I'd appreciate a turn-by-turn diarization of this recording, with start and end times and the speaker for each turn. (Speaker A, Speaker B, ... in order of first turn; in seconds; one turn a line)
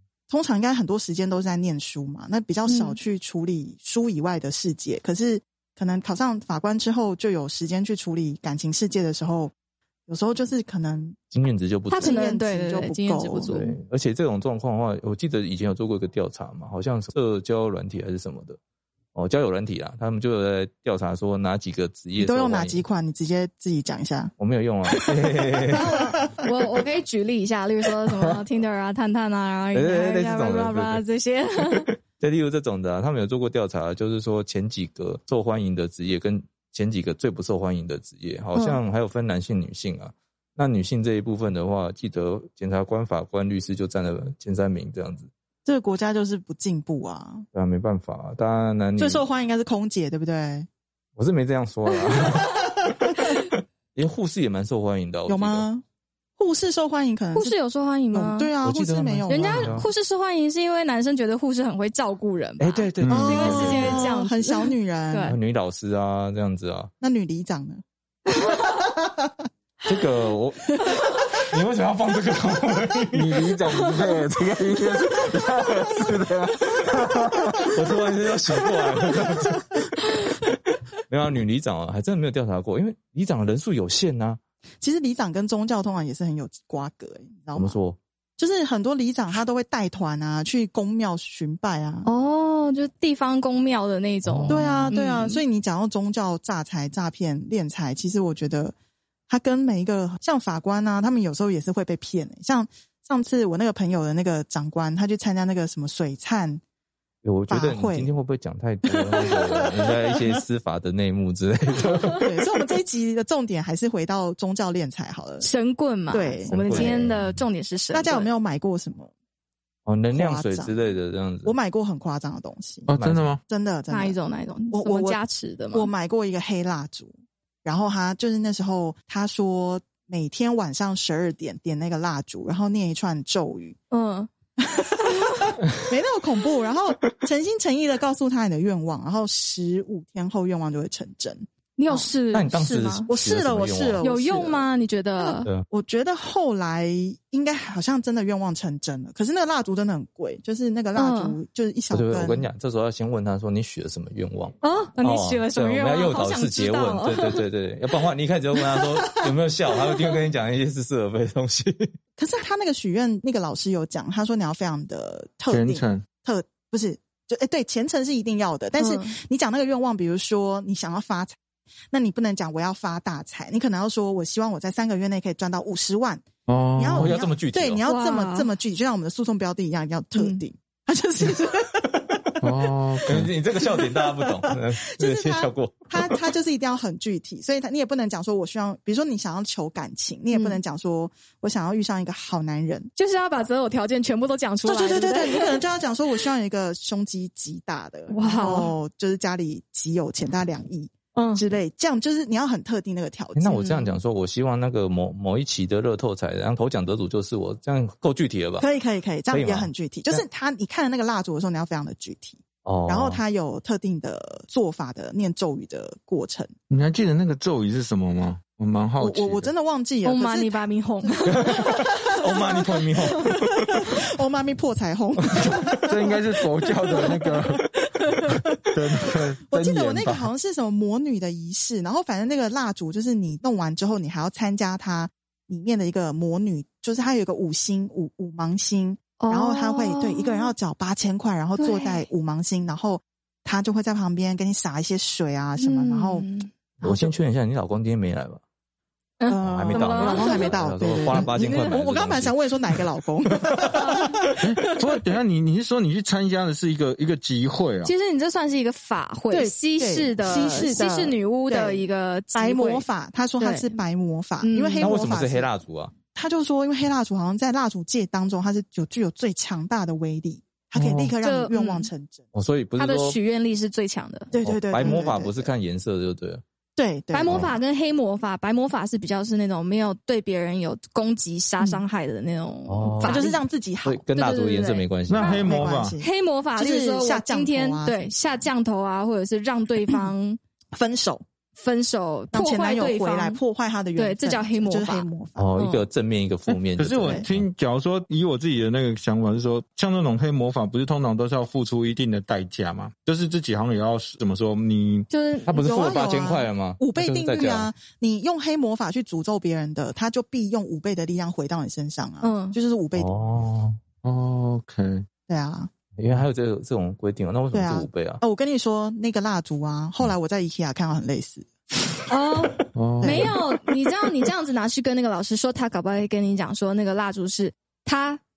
Speaker A: 0.3-9.5
Speaker B: 2.7-3.0
Speaker A: 10.1-11.2
Speaker C: 11.3-12.2
Speaker B: 11.9-13.8
Speaker A: 11.9-13.5
Speaker C: 13.5-18.6
Speaker C: 19.1-22.8
Speaker A: 22.2-24.3
Speaker C: 24.4-26.1
Speaker A: 24.9-26.3
Speaker B: 25.7-31.9
Speaker C: 29.7-31.0
Speaker C: 31.8-45.3
Speaker B: 38.5-38.8
Speaker A: 45.6-47.5
Speaker C: 47.5-49.2
Speaker A: 49.0-50.7
Speaker C: 51.2-53.4
Speaker B: 52.1-52.4
Speaker C: 53.9-55.7
Speaker A: 55.3-55.8
Speaker A: 56.4-57.5
Speaker B: 57.3-58.5
Speaker A: 58.1-59.8
Speaker C: 58.6-59.9
Speaker B: 59.3-65.4
Speaker C: 62.6-64.0
Speaker D: 63.0-63.8
Speaker A: 63.1-65.3
Speaker C: 65.3-66.9
Speaker A: 67.0-67.8
Speaker C: 69.8-73.8
Speaker D: 73.1-77.6
Speaker C: 77.7-79.9
Speaker C: 81.1-84.4
Speaker A: 84.8-87.8
Speaker C: 87.5-88.0
Speaker A: 88.4-92.1
Speaker B: 92.0-95.4
Speaker D: 94.2-94.9
Speaker A: 94.5-98.7
Speaker A: 99.3-106.6
Speaker C: 107.2-112.3
Speaker A: 107.5-108.1
Speaker A: 112.2-115.5
Speaker B: 115.4-118.3
Speaker A: 116.1-117.0
Speaker C: 116.5-117.3
Speaker A: 117.9-119.1
Speaker C: 119.8-121.5
Speaker A: 120.1-120.8
Speaker A: 121.4-122.9
Speaker D: 122.8-123.4
Speaker C: 122.9-123.3
Speaker A: 123.5-124.2
Speaker B: 123.9-125.9
Speaker A: 124.7-125.2
Speaker A: 125.7-127.1
Speaker A: 127.6-133.8
Speaker B: 133.9-134.3
Speaker A: 134.6-142.1
Speaker B: 141.8-143.1
Speaker C: 142.3-144.0
Speaker A: 143.1-152.4
Speaker B: 144.0-145.5
Speaker B: 150.9-151.4
Speaker C: 151.9-161.9
Speaker B: 154.6-157.4
Speaker A: 162.2-171.4
Speaker D: 165.5-166.0
Speaker B: 168.8-169.2
Speaker A: 171.9-176.2
Speaker D: 176.5-177.2
Speaker A: 176.7-181.9
Speaker C: 177.0-177.8
Speaker B: 177.8-178.5
Speaker B: 180.1-180.4
Speaker D: 182.4-183.3
Speaker C: 183.1-186.2
Speaker A: 183.6-192.9
Speaker B: 190.3-190.6
Speaker B: 192.9-195.6
Speaker A: 194.6-203.9
Speaker B: 198.1-198.7
Speaker B: 201.1-201.4
Speaker C: 203.3-208.7
Speaker B: 203.6-203.9
Speaker A: 208.6-216.5
Speaker C: 209.3-210.2
Speaker C: 212.6-213.2
Speaker D: 216.7-219.5
Speaker A: 219.0-220.6
Speaker B: 220.0-222.5
Speaker C: 221.3-223.8
Speaker A: 221.5-222.6
Speaker A: 223.8-226.2
Speaker D: 225.8-227.7
Speaker A: 226.8-227.4
Speaker D: 228.3-230.3
Speaker A: 229.4-246.2
Speaker B: 239.2-240.5
Speaker B: 241.6-242.0
Speaker B: 245.6-246.5
Speaker A: 246.8-247.1
Speaker C: 246.8-248.4
Speaker B: 249.2-250.6
Speaker A: 249.3-254.4
Speaker C: 249.4-252.4
Speaker B: 251.1-251.7
Speaker B: 253.7-254.0
Speaker D: 254.4-257.9
Speaker B: 257.8-262.9
Speaker A: 259.3-265.5
Speaker B: 263.4-263.8
Speaker B: 264.4-264.9
Speaker C: 264.8-265.9
Speaker A: 266.1-272.3
Speaker D: 270.7-271.1
Speaker B: 271.2-271.9
Speaker C: 272.3-273.2
Speaker B: 272.8-274.3
Speaker A: 274.3-275.5
Speaker C: 274.4-276.4
Speaker A: 276.8-277.5
Speaker B: 277.1-283.4
Speaker C: 277.2-277.5
Speaker C: 282.7-283.3
Speaker A: 283.0-284.0
Speaker C: 283.8-285.4
Speaker B: 284.1-290.4
Speaker D: 285.1-286.0
Speaker A: 285.2-288.0
Speaker A: 290.7-291.2
Speaker B: 291.6-293.4
Speaker A: 292.3-295.5
Speaker B: 293.9-295.8
Speaker C: 295.4-297.4
Speaker D: 296.5-305.1
Speaker A: 297.0-297.3
Speaker B: 305.1-305.6
Speaker C: 305.5-307.7
Speaker A: 305.6-313.1
Speaker B: 312.2-312.5
Speaker C: 312.9-313.8
Speaker D: 314.0-315.0
Speaker A: 315.3-315.7
Speaker C: 316.0-318.2
Speaker A: 317.5-321.5
Speaker B: 322.1-328.2
Speaker D: 322.7-323.3
Speaker A: 323.0-323.4